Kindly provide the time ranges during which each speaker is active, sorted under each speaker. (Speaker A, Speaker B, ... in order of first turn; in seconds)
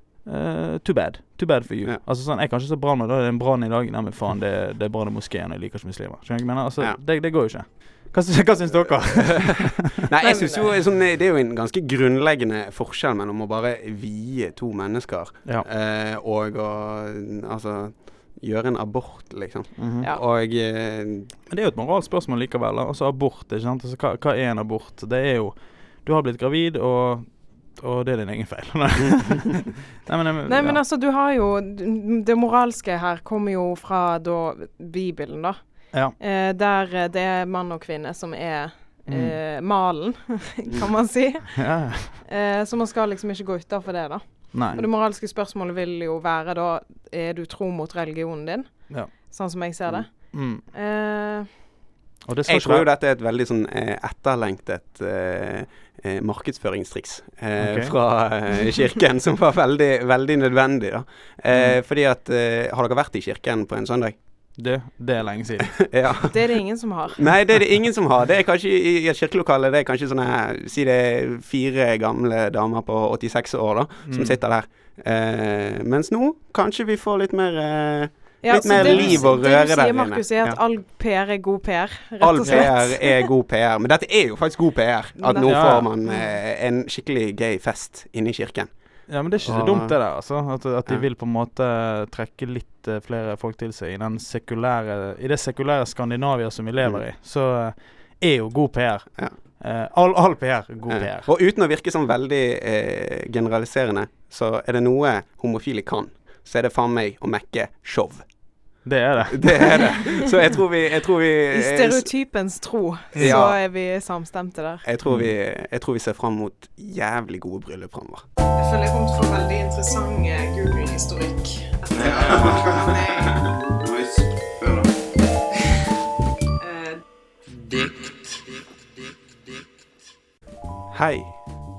Speaker A: 0.2-10.0, 19.8-20.1, 21.5-30.8, 39.1-39.4, 41.6-42.2, 44.5-44.8, 50.3-50.6, 52.3-52.9, 57.6-58.0, 64.6-66.0, 74.1-74.4, 78.7-79.2, 85.5-85.9, 89.1-101.3, 108.8-109.9, 113.2-113.4
Speaker B: 9.0-21.3, 52.5-64.2, 65.8-66.3, 67.2-80.6, 82.2-88.7, 89.4-90.0, 100.9-108.2, 109.3-112.1, 113.2-113.6, 114.8-118.2, 121.9-124.9, 130.9-131.4
Speaker C: 10.2-10.7, 30.5-51.5, 66.3-67.3, 78.4-83.2, 85.2-86.3, 111.5-114.8, 118.6-123.3, 126.6-127.0